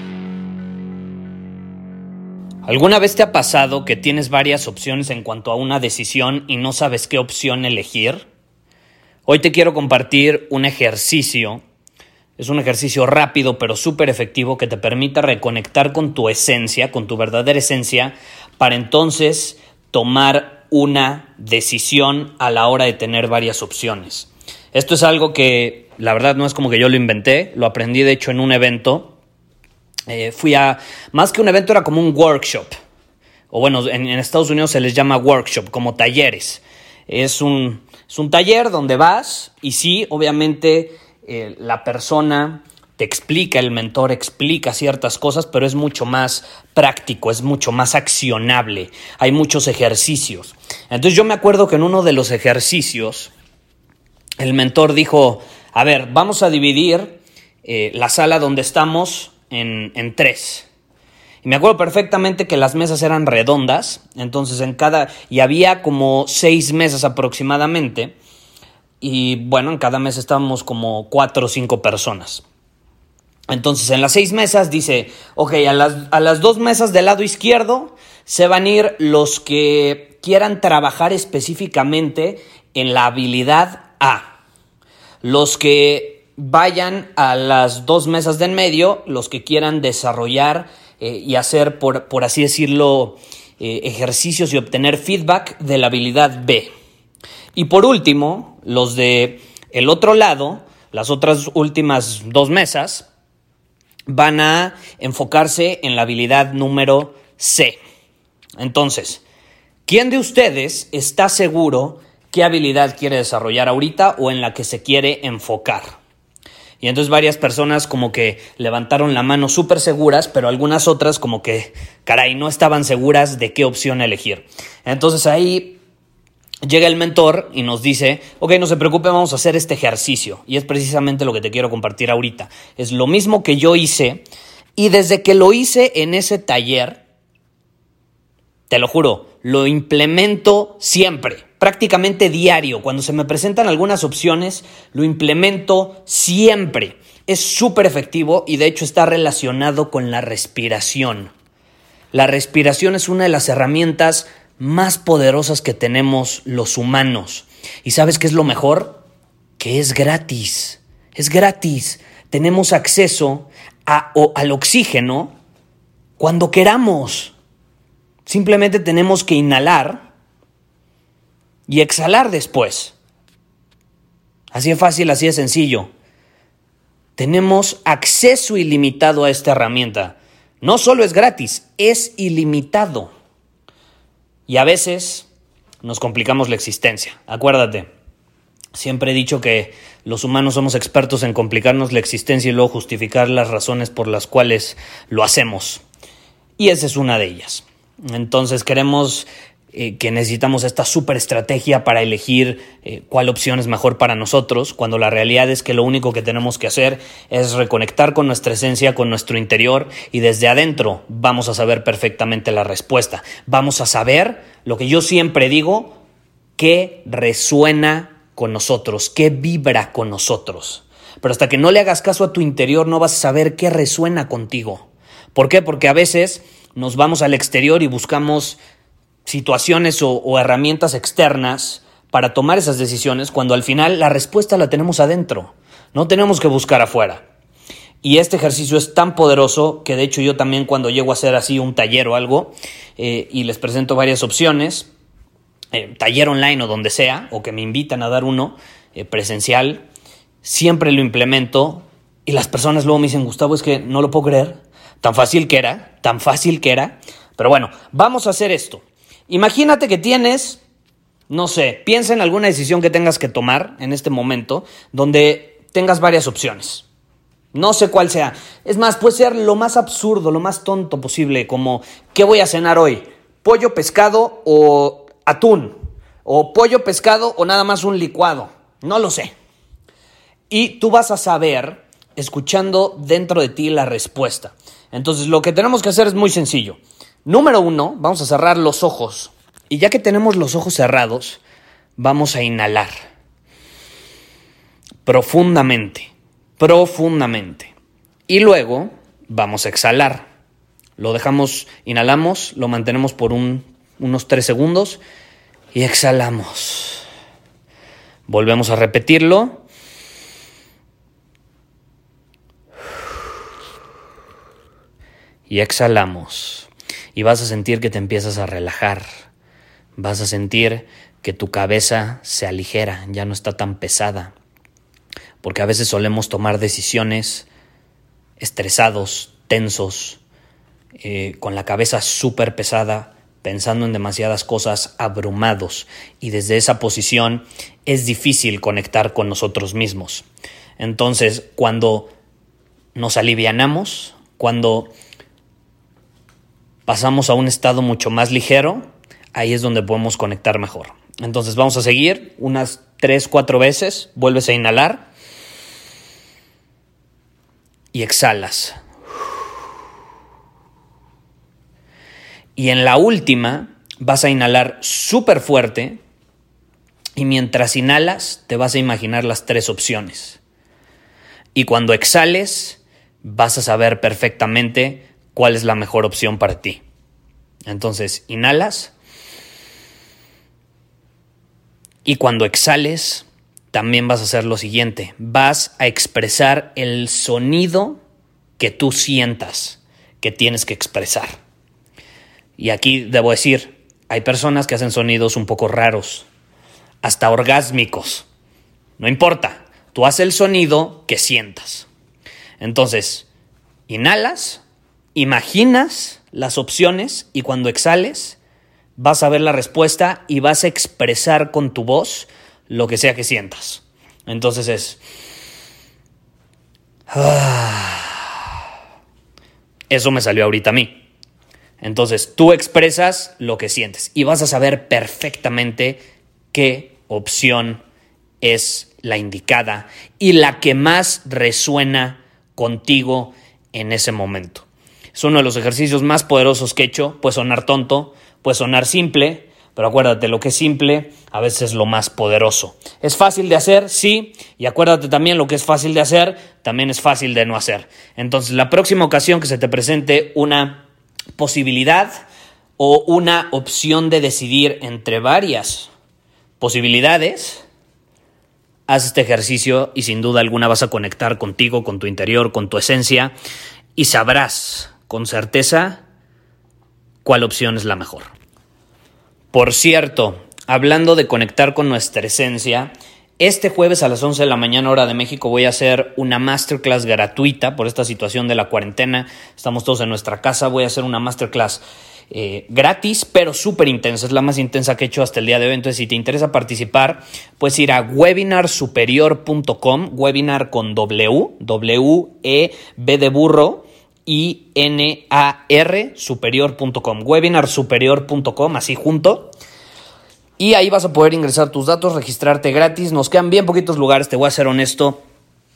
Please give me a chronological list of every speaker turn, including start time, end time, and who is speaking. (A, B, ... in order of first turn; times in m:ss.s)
0:02.6-0:08.3 A
0:09.3-0:11.6 A
0:12.4-0:29.1 A
0:30.1-0:32.7 A
0:33.5-0:53.3 A
0:54.4-1:00.7 A
1:01.4-1:08.2 A
1:09.0-1:12.4 A
1:13.5-1:24.4 A
1:25.2-1:36.7 A
1:37.5-1:43.1 A
1:44.1-1:47.8 A
1:48.6-1:49.2 A
1:49.9-1:56.0 A
1:56.8-2:05.8 A
2:06.6-2:17.0 A
2:18.7-2:31.3 A
2:32.1-2:39.0 A
2:39.6-2:45.3 A
2:46.2-2:47.3 A
2:48.2-2:50.0 A
2:51.7-2:53.0 A
2:54.5-2:55.9 A
2:57.2-3:03.1 A
3:04.5-3:05.3 A
3:05.8-3:07.9 A
3:08.7-3:15.8 A
3:16.6-3:36.0 A
3:36.6-3:48.6 A
3:49.2-3:57.2 A
3:58.0-4:04.9 A
4:05.7-4:09.8 A
4:10.4-4:20.6 A
4:21.3-4:26.8 A
4:27.5-4:39.3 A
4:40.5-4:51.4 A
4:52.0-4:52.9 A
4:55.0-4:57.7 A
4:58.3-5:00.3 A
5:01.0-5:05.0 A
5:05.7-5:07.0 A
5:08.3-5:09.6 A
5:15.5-5:19.0 A
5:20.0-5:24.3 A
5:25.4-5:27.5 A
5:28.4-5:30.2 A
5:31.0-5:40.3 A
5:40.8-5:42.1 A
5:42.9-5:44.9 A
5:46.8-5:55.1 A
5:57.9-5:58.8 A
6:02.6-6:06.0 A
6:07.2-6:10.4 A
6:11.5-6:16.8 A
6:17.7-6:18.9 A
6:22.0-6:28.0 A
6:28.6-6:31.4 A
6:32.6-6:36.3 A
6:37.0-6:38.3 A
6:39.0-6:41.9 A
6:42.6-6:43.3 A
6:43.9-6:44.6 A
6:45.1-6:48.4 A
6:49.0-6:55.0 A
6:57.1-6:58.3 A
6:59.9-7:01.0 A
7:01.8-7:07.8 A
7:08.4-7:30.8 A
7:31.4-7:32.1 A
7:32.8-7:35.9 A
7:36.6-7:37.6 A
7:38.9-7:43.3 A
7:44.0-7:46.0 A
7:47.2-7:48.3 A
7:49.5-8:19.5 A
8:20.6-8:25.2 A